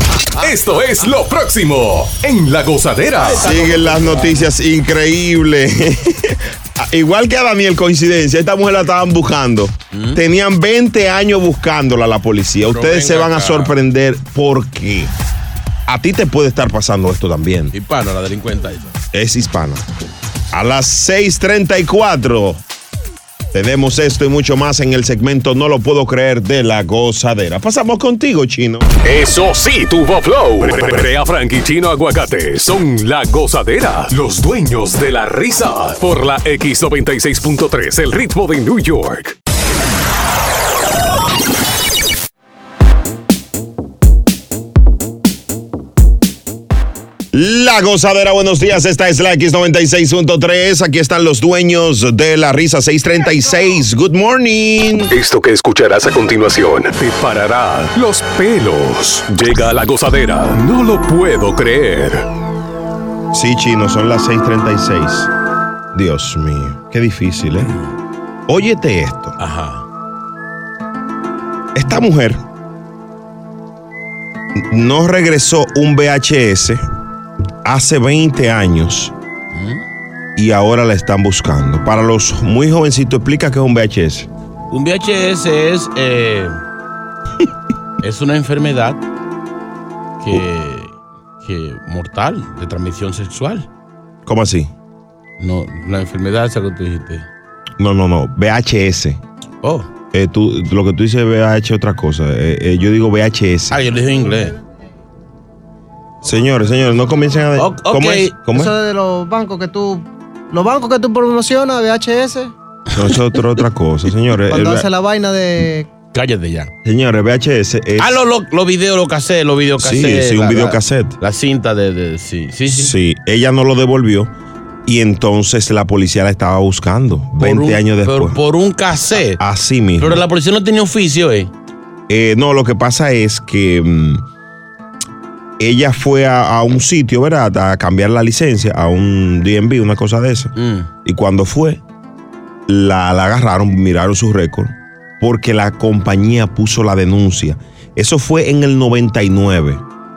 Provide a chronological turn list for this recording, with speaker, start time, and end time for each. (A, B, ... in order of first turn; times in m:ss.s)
0:00.4-0:03.4 A
0:03.2-0:04.4 B
0:03.4-0:15.1 C
0:09.9-0:10.2 B
0:12.6-0:13.7 B
0:15.9-0:17.7 C
0:17.7-0:19.0 B
0:19.1-0:19.8 C
0:20.5-0:22.6 C
0:23.5-0:28.9 C
0:29.0-0:39.4 A
0:47.3-0:55.1 C
0:55.1-1:02.3 A
1:03.3-1:05.3 C
1:05.9-1:07.7 C
1:07.7-1:07.9 B
1:08.5-1:09.4 C
1:09.4-1:09.8 B
1:11.7-1:12.4 C
1:14.6-1:16.8 C
1:17.6-1:19.1 C
1:19.5-1:19.8 B
1:20.4-1:24.3 C
1:24.7-1:26.6 B
1:28.0-1:29.0 B
1:30.2-1:33.6 B
1:34.2-1:34.7 C
1:35.4-1:37.2 B
1:37.8-1:39.2 C
1:39.6-1:39.9 B
1:40.1-1:43.8 C
1:43.7-1:44.5 B
1:46.2-1:48.7 C
1:47.6-1:48.3 B
1:48.5-1:52.5 D
1:52.9-1:54.9 C
1:54.5-1:55.9 D
1:56.1-1:56.7 B
1:56.8-1:58.2 C
1:58.0-2:02.9 B
1:59.8-2:01.2 C
2:02.7-2:04.3 C
2:04.8-2:08.4 C
2:07.4-2:09.4 B
2:09.3-2:10.2 C
2:10.0-2:11.5 B
2:12.1-2:14.2 C
2:15.6-2:20.5 C
2:20.6-2:20.9 B
2:21.0-2:21.8 C
2:22.7-2:29.8 C